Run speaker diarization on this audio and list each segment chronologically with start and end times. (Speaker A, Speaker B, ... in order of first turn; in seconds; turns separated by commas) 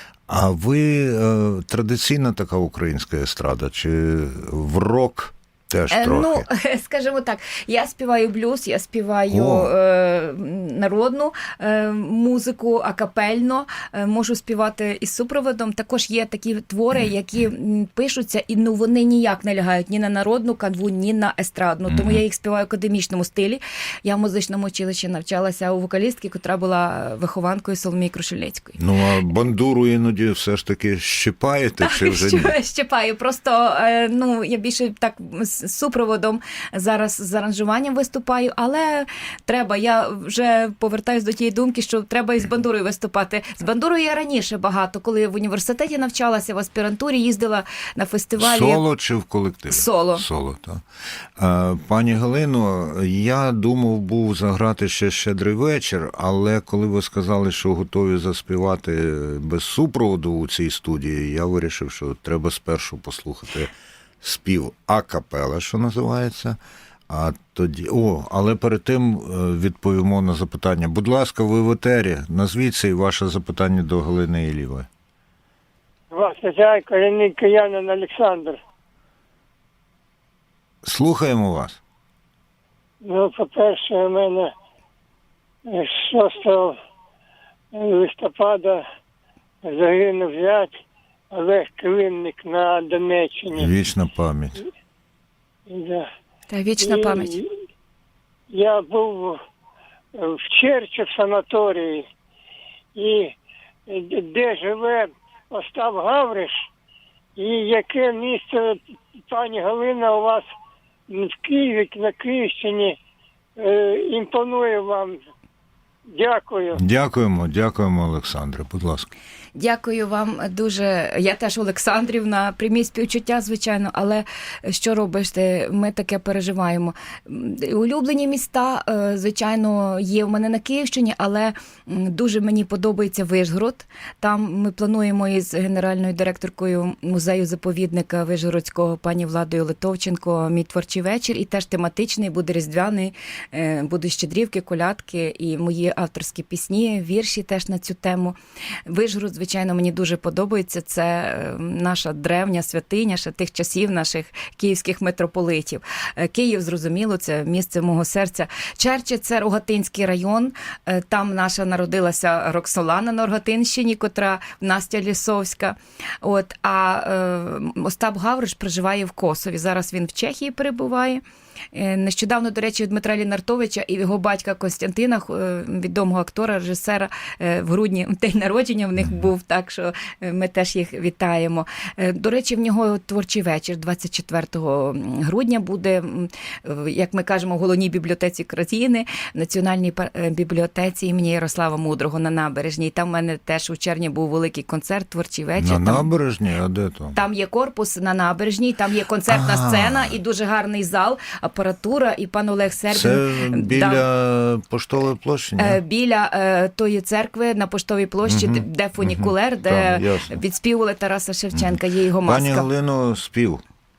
Speaker A: 0.3-6.5, Speaker B: 5.9-28.8, Speaker A: 9.3-9.7, Speaker A: 21.9-22.2, Speaker A: 28.8-32.5, Speaker B: 31.8-48.8, Speaker A: 48.4-50.8, Speaker B: 49.7-50.2, Speaker A: 51.4-74.9, Speaker C: 76.1-78.6, Speaker A: 80.8-81.8, Speaker C: 83.0-84.5, Speaker C: 85.7-86.8, Speaker C: 87.7-88.8, Speaker C: 89.6-90.8, Speaker C: 91.3-93.7, Speaker A: 93.5-94.6, Speaker C: 95.7-96.1, Speaker B: 96.5-97.4, Speaker C: 96.8-97.5, Speaker C: 98.5-99.4, Speaker C: 100.1-102.1, Speaker C: 102.9-103.3, Speaker C: 103.9-106.6, Speaker C: 107.3-110.5, Speaker C: 111.1-113.0, Speaker C: 113.6-115.2, Speaker C: 116.1-116.8, Speaker A: 116.7-119.1, Speaker B: 119.5-171.2, Speaker B: 171.7-196.1, Speaker A: 195.6-197.2, Speaker B: 197.1-204.0, Speaker A: 199.3-200.2, Speaker A: 202.9-205.8, Speaker B: 205.6-212.7, Speaker A: 208.2-210.4, Speaker A: 212.2-213.6